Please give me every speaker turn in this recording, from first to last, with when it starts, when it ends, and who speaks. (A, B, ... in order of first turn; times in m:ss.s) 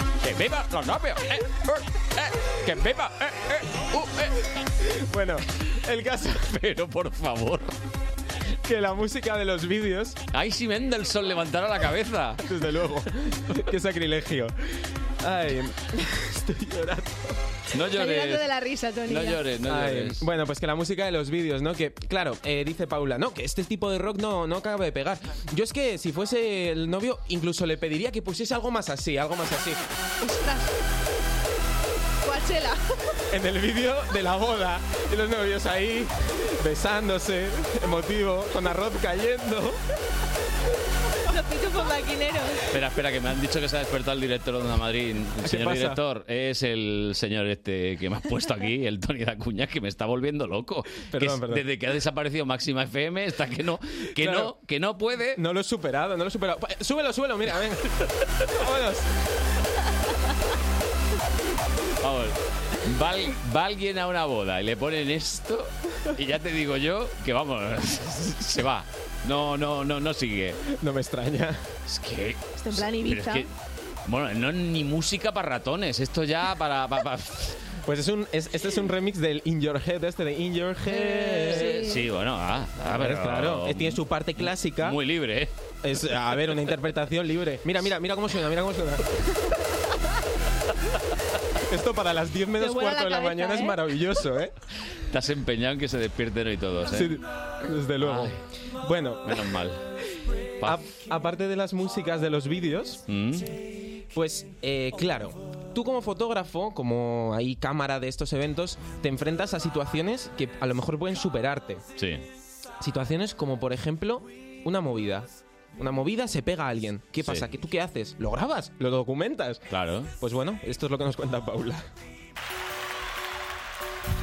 0:00.2-0:04.3 A
0:04.8-0:06.4 B
0:06.4-0:07.7 A
0:08.6-0:10.2 B
0:10.3-0:12.4 A
0:12.4-0:17.4 B
0:17.7-0:18.5 A
0:17.9-0:19.4 C
0:19.1-0:20.3 A
0:19.7-0:29.8 B
0:30.2-0:30.7 C
0:32.2-0:33.1 C
0:33.3-0:39.8 B
0:41.3-0:42.6 C
0:42.7-0:55.4 A
0:45.4-0:46.0 B
0:51.1-0:51.6 B
0:54.2-0:54.5 B
0:55.4-0:57.8 B
0:58.6-0:59.1 B
1:02.0-1:10.6 A
1:10.7-1:11.7 B
1:11.9-1:13.5 A
1:12.6-1:13.5 C
1:14.1-1:17.7 A
1:17.9-1:21.7 B
1:20.9-1:22.1 C
1:21.4-1:25.5 A
1:22.9-1:25.0 B
1:25.8-1:29.0 B
1:31.7-1:34.5 B
1:32.6-1:33.8 C
1:35.1-1:37.2 A
1:36.9-1:39.4 B
1:38.0-1:38.4 A
1:39.2-1:39.8 A
1:40.6-1:43.0 B
1:43.1-1:43.6 A
1:44.1-1:51.9 B
1:52.0-1:52.2 A
1:52.8-1:59.6 B
1:59.7-2:00.1 A
2:00.2-2:01.9 B